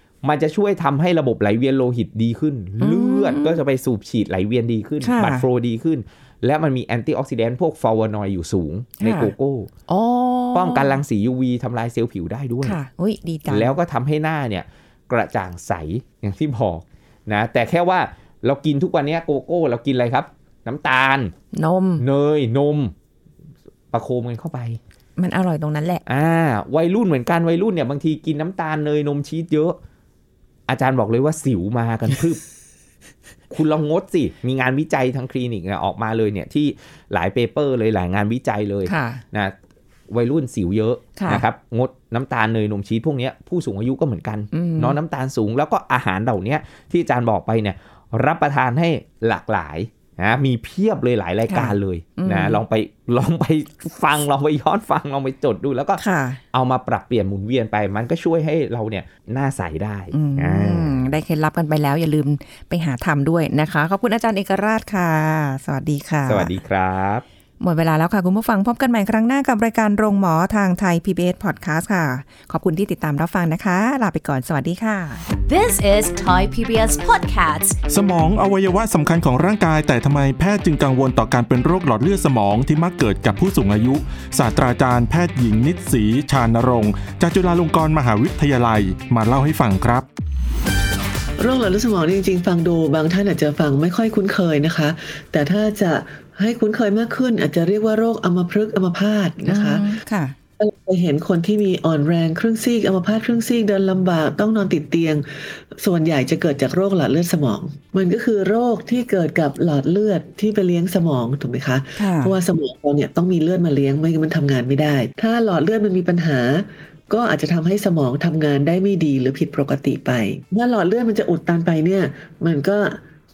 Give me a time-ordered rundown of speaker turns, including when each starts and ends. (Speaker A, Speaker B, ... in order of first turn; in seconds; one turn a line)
Speaker A: 0.2-9.7
Speaker B: 2.8-3.6
Speaker B: 5.0-5.5
Speaker B: 9.0-9.3
Speaker B: 9.9-11.0
Speaker A: 10.5-12.8
Speaker B: 12.6-13.8
Speaker A: 13.5-21.3
Speaker B: 21.5-22.1
Speaker A: 22.0-22.9
Speaker A: 23.9-24.8
Speaker B: 25.2-26.0
Speaker A: 26.1-29.8
Speaker A: 30.7-32.4
Speaker A: 33.5-39.5
Speaker B: 38.9-39.2
Speaker A: 40.1-61.0
Speaker B: 41.2-41.4
Speaker B: 44.5-45.0
Speaker B: 51.5-52.6
Speaker B: 56.0-56.4
Speaker B: 60.1-66.6
Speaker A: 66.3-67.2
Speaker B: 67.6-75.2
Speaker C: 75.5-77.8
Speaker D: 77.9-90.1
Speaker E: 91.4-99.9
Speaker B: 99.5-100.3
Speaker E: 100.6-123.0
Speaker B: 112.0-112.4